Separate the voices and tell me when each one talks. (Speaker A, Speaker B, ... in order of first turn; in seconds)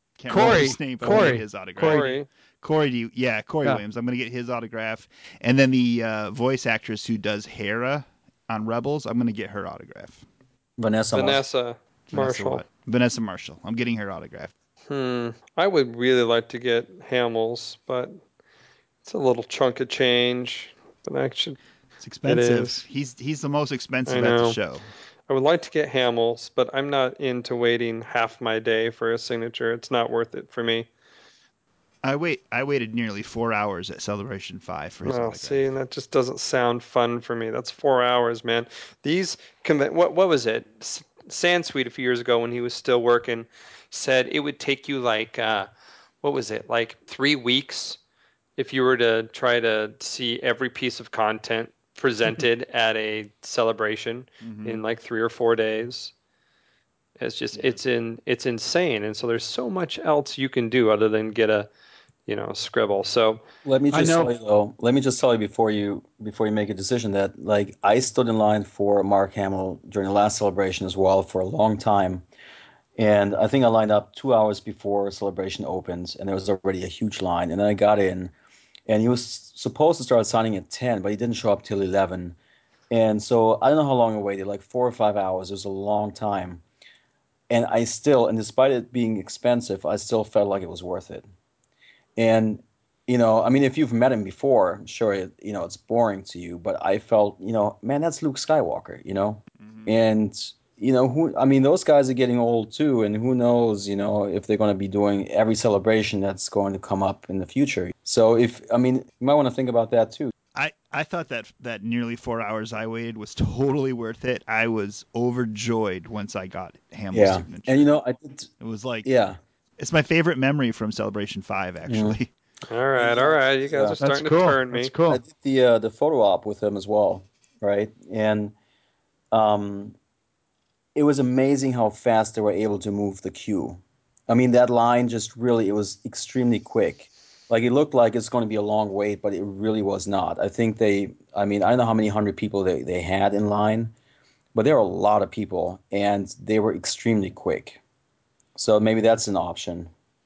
Speaker A: 0.2-10.2, 12.1-14.5, 22.0-24.9, 32.0-35.6, 54.4-54.8, 99.6-99.9, 110.5-117.8, 118.6-119.1, 119.8-122.3
Speaker B: 0.3-2.0, 63.9-64.3, 124.0-125.2
Speaker C: 1.0-2.3, 11.1-12.6, 14.9-18.2, 19.0-21.6, 22.2-22.8, 24.1-24.6, 25.3-30.9, 35.0-45.7, 46.2-48.0, 48.6-56.1, 57.2-61.7, 62.3-63.4, 122.7-124.9
Speaker D: 10.8-11.4, 63.6-72.2, 73.0-78.3, 78.9-82.3, 82.9-86.6, 87.5-91.3, 92.2-110.3, 117.1-118.5, 119.0-119.4, 121.8-122.2, 123.0-124.0, 125.1-128.5, 129.3-129.9, 130.9-143.9, 144.5-147.8, 148.6-149.9